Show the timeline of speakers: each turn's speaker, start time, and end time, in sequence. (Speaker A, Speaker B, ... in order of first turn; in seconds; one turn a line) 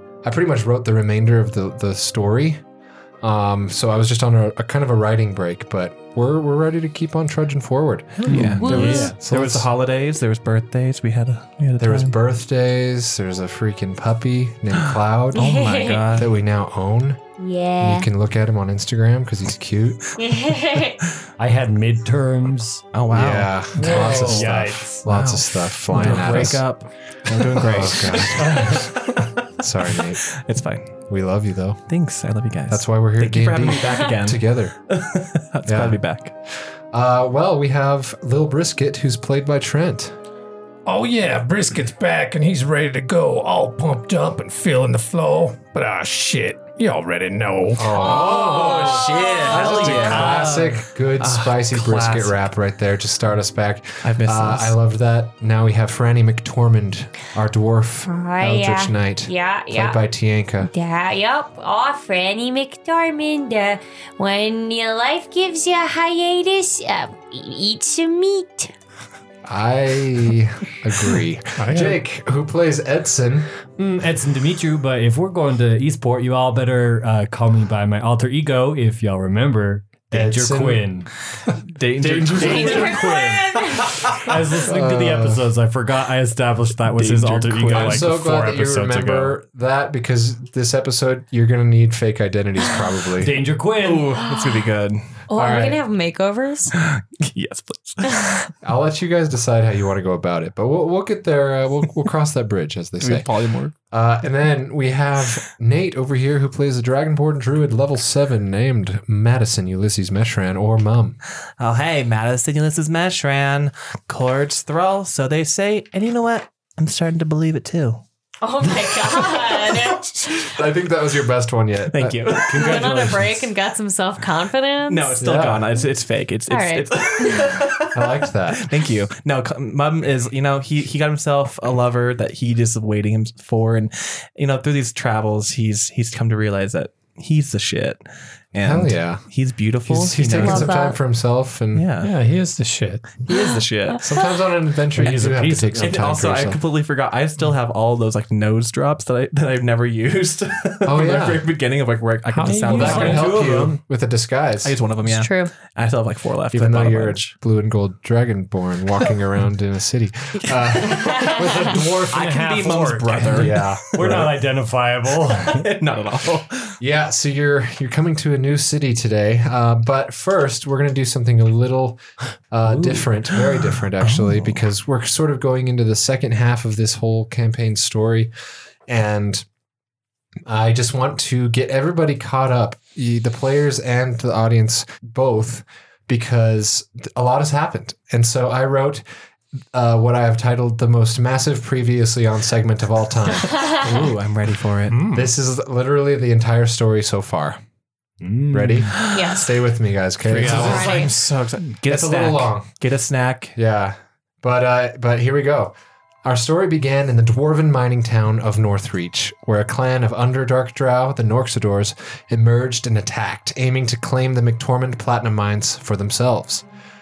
Speaker A: 0.2-2.6
Speaker A: 3.2-9.7
Speaker B: 8.2-9.2
Speaker C: 8.3-12.1
Speaker D: 8.6-9.1
Speaker A: 11.8-17.2
Speaker C: 15.3-16.3
Speaker D: 15.3-16.0
Speaker D: 17.4-18.1
Speaker A: 17.8-20.0
Speaker D: 20.2-21.0
Speaker B: 21.4-22.8
Speaker C: 22.9-24.4
Speaker A: 23.1-26.6
Speaker E: 23.8-24.4
Speaker B: 23.8-25.3
Speaker C: 25.1-30.9
Speaker B: 25.9-26.6
Speaker A: 27.6-30.2
Speaker A: 31.1-31.8
Speaker C: 31.9-36.3
Speaker A: 32.7-34.7
Speaker A: 35.6-36.0
Speaker A: 36.9-40.1
Speaker E: 40.9-48.0
Speaker A: 47.7-48.9
Speaker C: 47.9-52.4
Speaker D: 48.0-49.7
Speaker A: 49.4-60.7
Speaker B: 50.3-50.6
Speaker C: 54.0-54.7
Speaker D: 58.0-60.0
Speaker D: 60.6-68.7
Speaker A: 69.5-73.5
Speaker E: 71.6-72.0
Speaker B: 73.8-81.1
Speaker A: 80.1-80.8
Speaker C: 81.7-83.1
Speaker A: 82.0-83.0
Speaker B: 82.1-89.4
Speaker D: 82.4-83.9
Speaker A: 84.6-85.5
Speaker C: 86.8-88.1
Speaker A: 87.7-93.4
Speaker B: 93.2-94.1
Speaker C: 93.8-95.2
Speaker D: 95.3-96.7
Speaker A: 95.3-95.8
Speaker C: 96.7-98.5
Speaker A: 98.6-103.3
Speaker C: 103.0-103.7
Speaker A: 103.9-111.2
Speaker C: 111.6-118.0
Speaker D: 118.4-120.5
Speaker A: 120.4-123.3
Speaker C: 121.9-123.1
Speaker D: 122.5-125.2
Speaker C: 124.9-138.0
Speaker A: 125.2-125.7
Speaker D: 126.5-127.6
Speaker A: 127.9-128.7
Speaker C: 138.5-140.8
Speaker A: 138.6-139.2
Speaker A: 139.8-141.8
Speaker D: 140.4-141.0
Speaker C: 141.7-142.1
Speaker E: 142.0-143.1
Speaker C: 143.2-144.0
Speaker D: 143.3-143.6
Speaker A: 144.0-146.6
Speaker B: 144.9-146.1
Speaker C: 145.8-153.4
Speaker A: 150.8-151.4
Speaker E: 152.3-152.7
Speaker B: 152.4-153.8
Speaker A: 152.7-154.7
Speaker C: 154.6-157.3
Speaker D: 155.1-155.5
Speaker A: 156.5-161.7
Speaker B: 161.0-165.7
Speaker C: 161.7-164.3
Speaker A: 163.3-164.3
Speaker C: 165.3-166.8
Speaker A: 166.8-172.0
Speaker A: 172.5-178.3
Speaker B: 172.7-173.0
Speaker C: 174.0-174.5
Speaker A: 178.9-179.4
Speaker A: 180.5-189.0
Speaker A: 189.7-193.5
Speaker C: 193.6-195.0
Speaker B: 194.9-195.2
Speaker A: 195.1-197.6
Speaker B: 198.2-198.9
Speaker A: 198.5-201.1
Speaker C: 198.9-199.4
Speaker D: 199.1-199.5
Speaker B: 200.3-201.1
Speaker C: 200.3-203.6
Speaker D: 200.6-201.1
Speaker A: 201.9-202.7
Speaker A: 203.6-216.6